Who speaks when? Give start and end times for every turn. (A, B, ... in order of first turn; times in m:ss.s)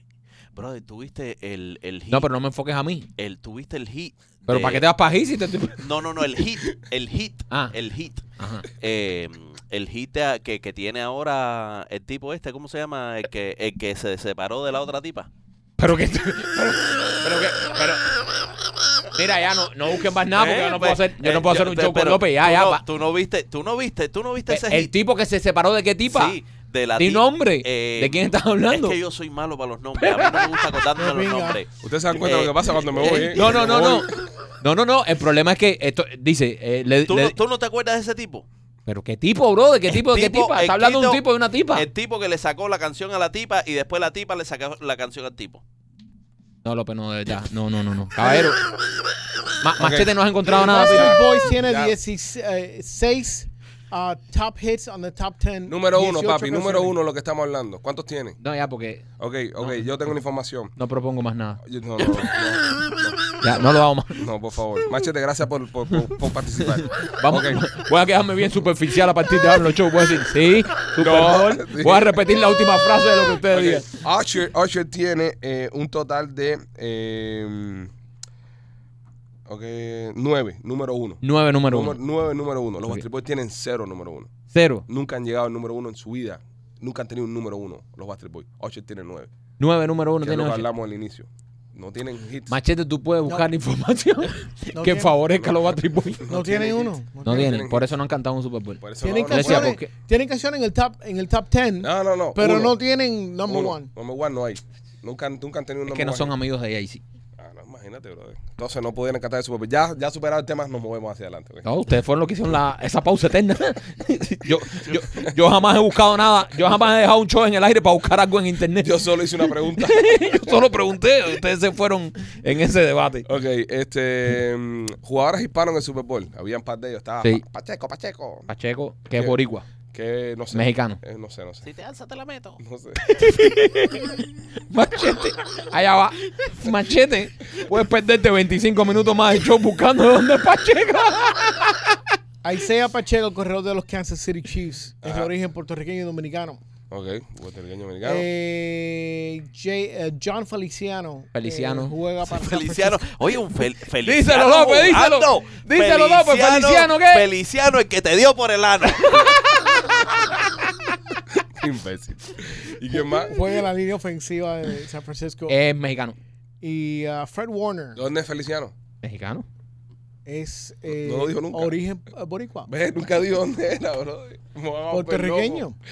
0:00.5-0:02.3 A
0:02.1-0:03.1 B
0:03.2-0:04.9 A
0:04.5-0:05.9 B
0:05.8-0:15.3 A
0:07.5-0:07.8 B
0:08.4-0:08.7 B
0:15.8-0:18.1 B
0:19.1-0:22.8 B
0:20.3-0:24.9 A
0:24.5-0:26.4 B
0:26.1-0:33.6 A
0:27.0-0:29.0 B
0:30.0-0:30.7 B
0:31.0-0:31.6 C
0:31.8-0:34.2 D
0:33.0-0:37.4 B
0:37.1-0:38.5 A
0:38.9-0:41.9 B
0:39.9-0:45.6 A
0:46.6-0:48.6 B
0:49.6-0:51.5 B
0:49.8-0:52.0 D
0:50.5-0:57.0 C
0:55.7-0:58.4 D
0:58.4-0:59.1 B
0:59.2-1:00.7 D
0:59.6-0:59.9 B
1:00.8-1:01.6 B
1:01.6-1:07.7 D
1:03.4-1:04.2 B
1:06.6-1:13.9 B
1:11.0-1:12.2 D
1:13.5-1:17.9 D
1:19.5-1:24.3 D
1:21.2-1:22.0 B
1:24.5-1:24.9 B
1:24.9-1:29.3 D
1:29.6-1:30.7 B
1:30.2-1:32.6 D
1:32.5-1:36.6 B
1:34.7-1:35.2 C
1:35.4-1:37.9 D
1:36.3-1:37.6 C
1:37.2-1:39.9 B
1:38.8-1:39.8 D
1:39.0-1:43.9 C
1:41.8-1:42.8 D
1:43.5-1:46.3 D
1:45.9-1:47.0 B
1:47.4-1:51.7 D
1:51.6-2:03.3 B
1:58.8-2:00.6 D
2:03.3-2:08.5 D
2:08.5-2:09.7 B
2:09.9-2:11.7 D
2:10.5-2:11.0 B
2:11.6-2:12.6 A
2:12.6-2:13.0 D
2:13.0-2:22.1 B
2:22.4-2:26.6 C
2:25.0-2:25.3 D
2:26.9-2:28.2 D
2:28.0-2:33.2 C
2:31.3-2:32.0 B
2:32.2-2:39.4 A
2:34.0-2:37.3 B
2:39.0-2:41.0 B
2:41.4-2:43.4 D
2:42.9-2:45.6 C
2:45.5-2:46.2 B
2:46.6-2:48.0 C
2:48.0-2:48.7 D
2:49.0-2:49.5 B
2:50.3-2:52.7 C
2:51.0-2:51.8 D
2:52.7-2:55.7 D
2:54.9-2:55.8 C